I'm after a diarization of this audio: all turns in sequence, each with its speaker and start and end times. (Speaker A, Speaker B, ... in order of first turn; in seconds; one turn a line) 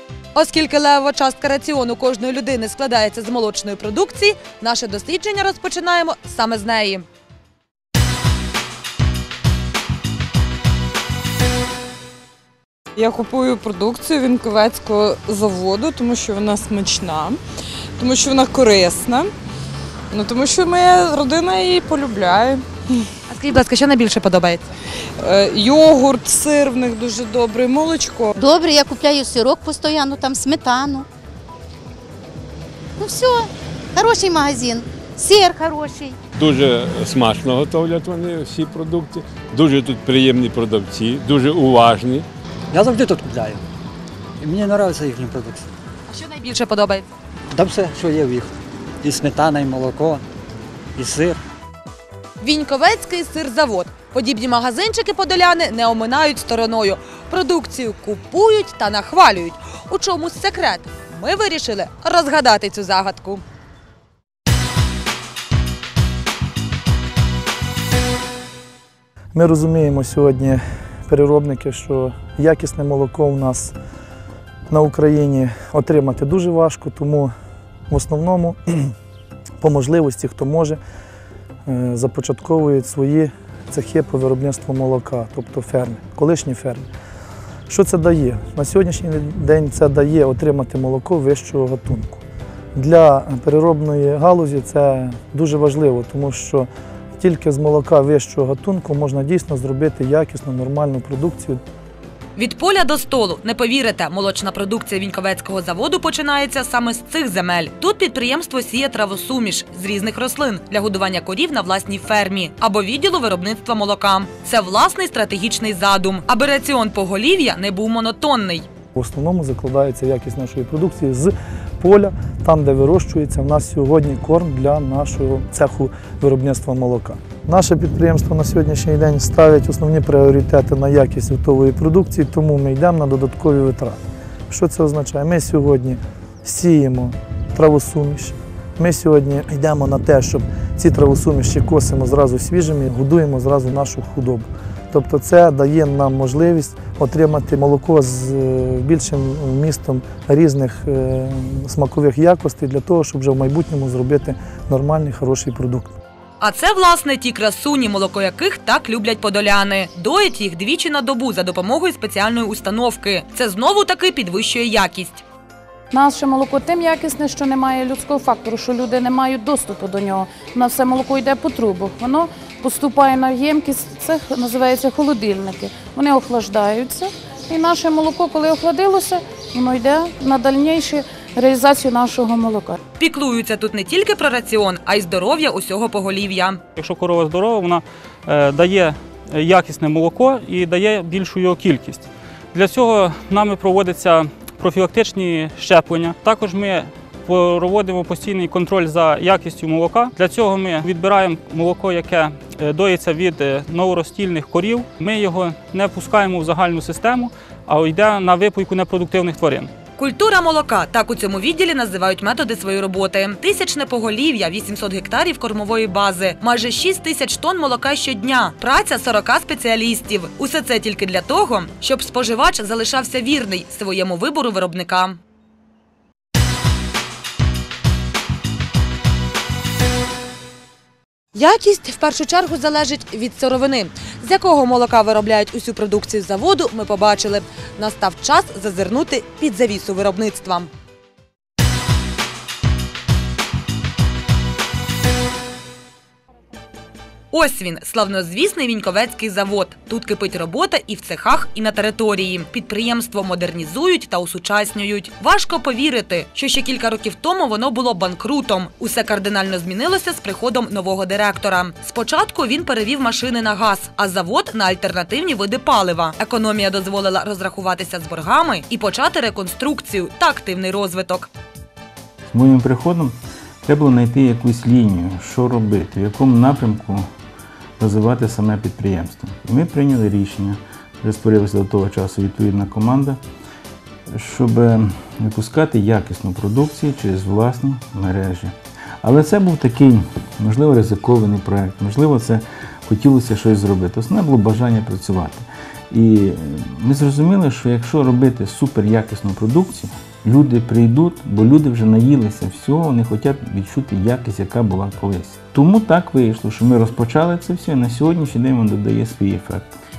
Speaker A: 0.3-7.0
Speaker B: 13.0-17.4
Speaker B: 18.0-19.3
Speaker B: 20.1-22.6
Speaker A: 23.3-24.6
Speaker B: 25.2-28.3
Speaker C: 28.3-31.1
Speaker C: 33.0-36.2
Speaker D: 36.4-42.2
Speaker E: 42.7-43.6
Speaker E: 44.4-45.6
Speaker A: 46.1-47.0
Speaker E: 47.5-48.5
Speaker E: 49.0-50.2
Speaker E: 51.0-51.4
Speaker A: 52.4-63.4
Speaker F: 69.3-73.7
Speaker F: 74.7-77.3
Speaker F: 77.9-78.9
Speaker F: 79.6-80.8
Speaker F: 81.7-86.9
Speaker F: 87.7-92.2
Speaker F: 92.7-101.6
Speaker A: 102.3-118.7
Speaker F: 119.0-134.0
Speaker F: 134.5-155.9
Speaker A: 156.4-165.2
Speaker G: 165.9-182.8
Speaker A: 183.0-186.6
Speaker H: 186.8-209.7
Speaker A: 210.0-225.2
Speaker A: 231.3-240.7
Speaker A: 247.3-271.3
Speaker I: 272.3-277.1
Speaker I: 277.8-283.2
Speaker I: 284.1-309.7